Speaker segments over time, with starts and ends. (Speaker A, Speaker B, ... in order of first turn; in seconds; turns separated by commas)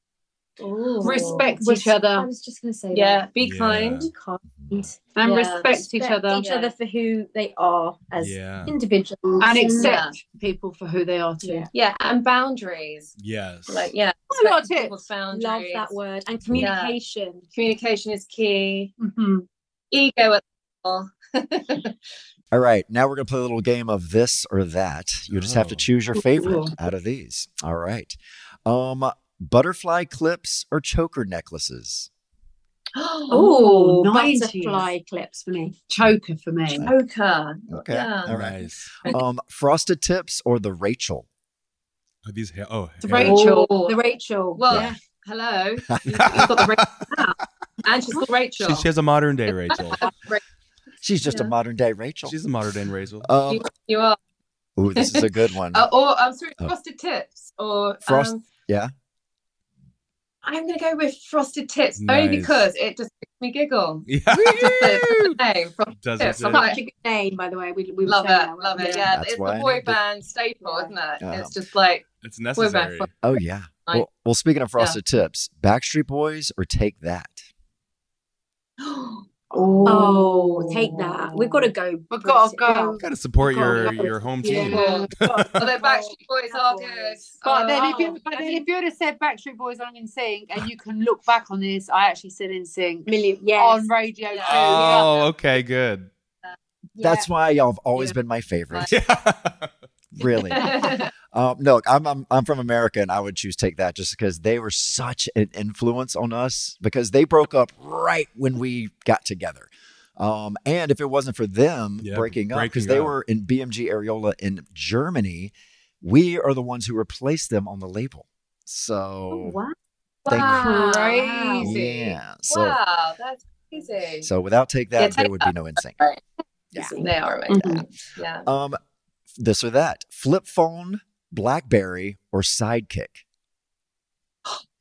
Speaker A: 0.6-5.1, Speaker B: 0.7-1.5, Speaker C: 1.0-2.3, Speaker B: 2.9-4.1, Speaker D: 3.4-4.1, Speaker E: 4.6-4.9, Speaker C: 5.2-6.5, Speaker B: 5.2-5.8, Speaker A: 5.7-10.0, Speaker B: 6.4-6.7, Speaker D: 8.2-8.8, Speaker C: 9.4-11.7, Speaker B: 9.8-10.2, Speaker A: 11.4-11.7, Speaker B: 11.7-13.2, Speaker D: 13.2-13.9, Speaker B: 13.7-16.0, Speaker C: 14.3-15.0, Speaker A: 15.3-17.5, Speaker B: 16.6-17.0, Speaker B: 17.5-18.9, Speaker C: 19.0-19.4, Speaker B: 19.9-22.0, Speaker E: 22.5-32.1, Speaker D: 25.3-25.9, Speaker C: 26.2-26.8, Speaker B: 33.0-33.5, Speaker A: 33.3-35.8, Speaker C: 33.3-34.9, Speaker C: 35.9-36.9, Speaker E: 36.7-37.0, Speaker B: 36.8-38.4, Speaker E: 37.7-41.3, Speaker D: 38.3-39.0, Speaker D: 42.2-43.4, Speaker C: 43.0-43.7, Speaker A: 43.1-45.0, Speaker B: 43.1-44.0, Speaker B: 44.5-46.8, Speaker D: 46.1-46.7, Speaker A: 46.3-47.3, Speaker B: 47.8-48.9, Speaker D: 48.6-50.0, Speaker B: 49.5-50.4, Speaker E: 51.0-52.4, Speaker D: 52.2-53.3, Speaker E: 53.2-53.7, Speaker B: 53.5-54.2, Speaker E: 54.8-55.9, Speaker B: 54.9-58.4, Speaker E: 58.1-58.9, Speaker B: 60.4-66.8, Speaker D: 62.0-62.7, Speaker D: 64.1-65.4, Speaker D: 66.0-66.7, Speaker A: 66.5-69.1, Speaker B: 68.0-73.1, Speaker E: 69.1-70.0, Speaker A: 70.6-70.9, Speaker E: 71.2-71.6, Speaker D: 72.2-73.1, Speaker E: 73.2-77.4, Speaker B: 78.8-81.3, Speaker C: 79.5-81.0, Speaker A: 79.8-84.3, Speaker C: 82.1-86.1, Speaker D: 83.0-85.6, Speaker B: 84.5-88.3, Speaker A: 86.5-88.6, Speaker C: 87.4-95.1, Speaker A: 93.1-93.9, Speaker B: 94.3-95.3, Speaker D: 94.5-96.1, Speaker A: 97.0-97.3, Speaker E: 97.0-98.9, Speaker D: 98.9-99.7, Speaker E: 100.1-100.8, Speaker B: 100.5-101.1, Speaker E: 101.3-119.6, Speaker D: 112.0-113.2, Speaker A: 119.3-119.8, Speaker B: 120.2-124.3, Speaker E: 120.3-120.7, Speaker A: 120.3-121.7, Speaker C: 120.7-121.5, Speaker E: 121.6-122.8, Speaker E: 124.2-126.0, Speaker B: 125.0-126.2, Speaker B: 126.8-128.5, Speaker A: 127.5-127.8, Speaker E: 128.4-128.8, Speaker E: 129.4-133.2